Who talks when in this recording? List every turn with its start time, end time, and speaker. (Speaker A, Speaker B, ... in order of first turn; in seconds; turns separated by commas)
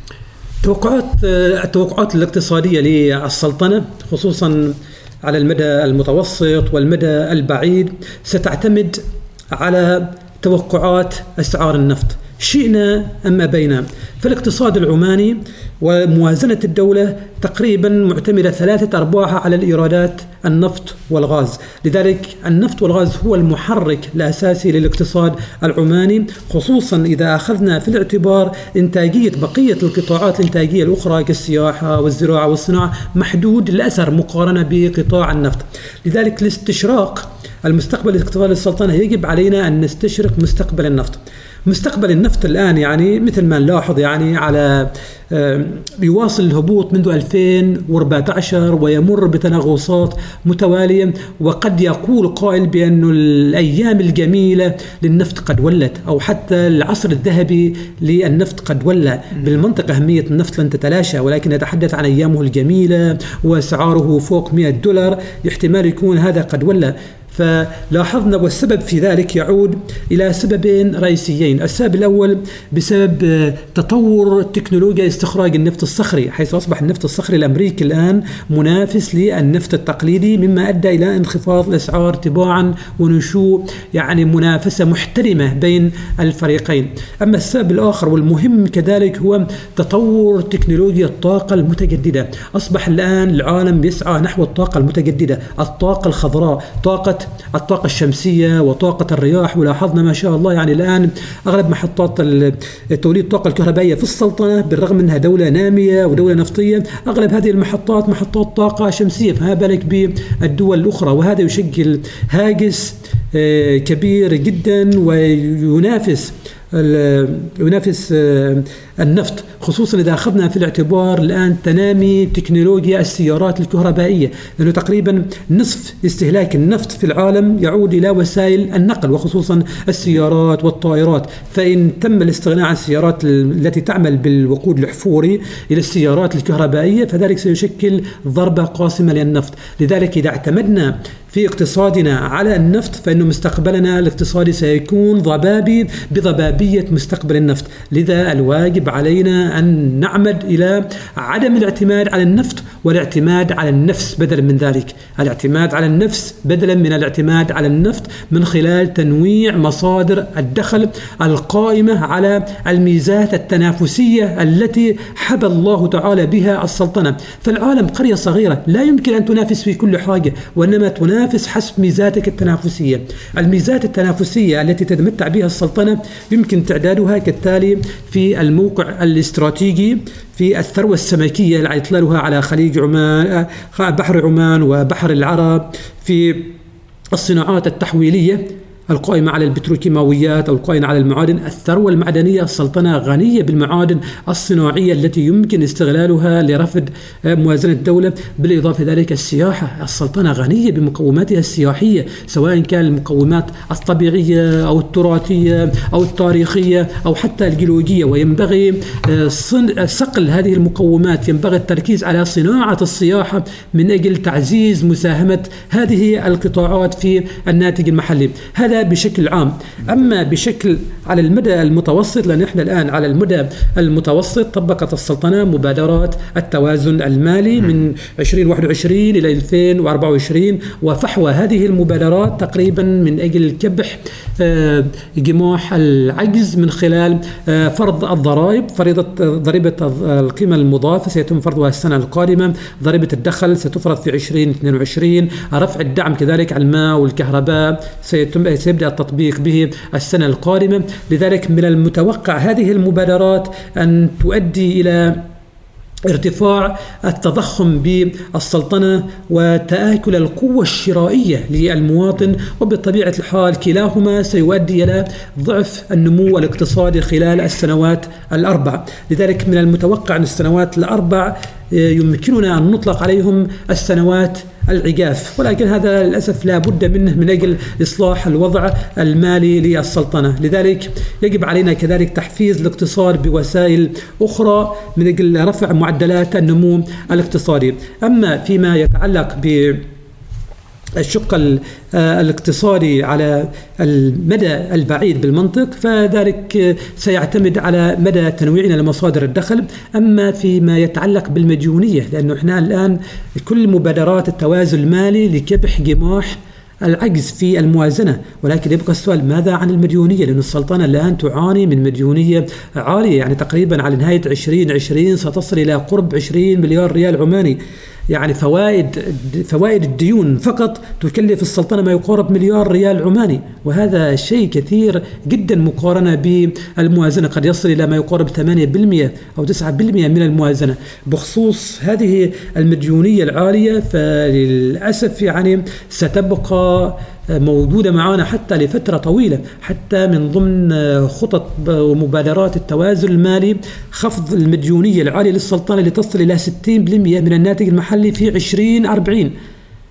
Speaker A: 0.6-186.5, Speaker A: 187.1-255.3, Speaker A: 256.1-289.9, Speaker A: 291.0-317.6, Speaker A: 318.1-349.3